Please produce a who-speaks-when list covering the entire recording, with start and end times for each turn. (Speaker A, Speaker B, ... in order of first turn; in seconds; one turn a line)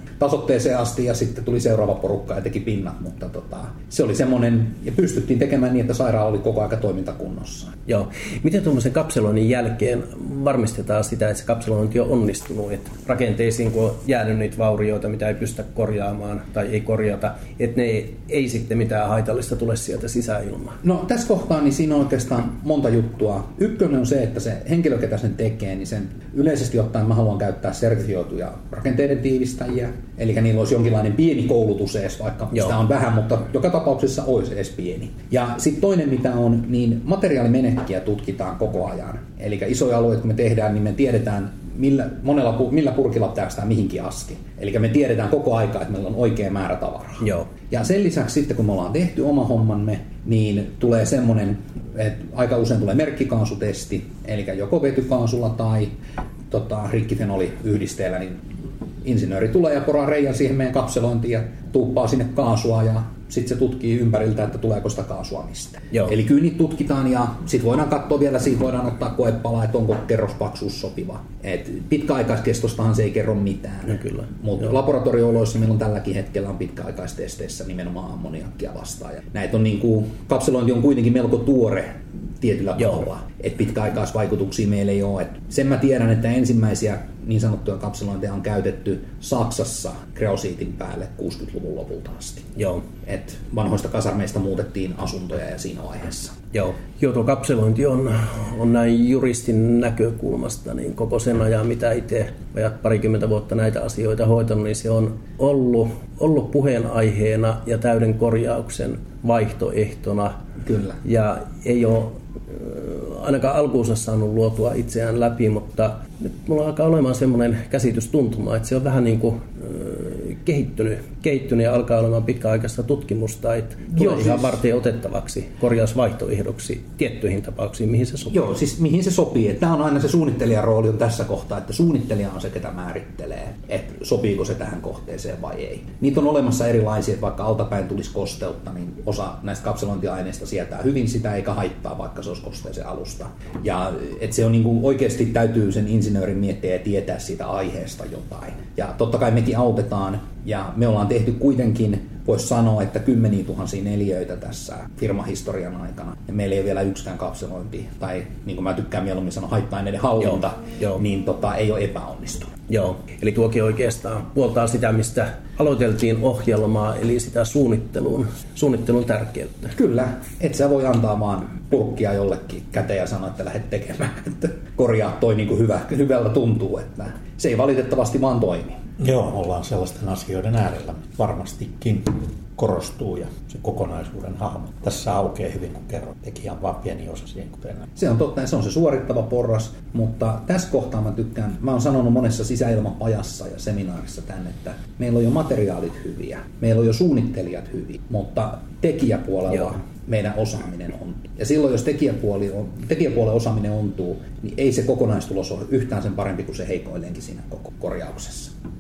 Speaker A: 0.2-7.7
Speaker B: 7.9-20.8
Speaker A: 20.8-56.0
Speaker B: 47.2-47.5
Speaker A: 56.5-58.4
Speaker A: 59.0-92.5
Speaker B: 73.9-74.3
Speaker B: 92.6-92.8
Speaker A: 93.0-96.4
Speaker B: 96.5-110.3
Speaker A: 110.6-111.0
Speaker B: 111.0-128.4
Speaker A: 123.9-124.6
Speaker A: 128.3-162.6
Speaker B: 160.2-161.0
Speaker B: 162.7-169.7
Speaker A: 169.8-178.8
Speaker C: 179.0-187.9
Speaker A: 188.0-208.5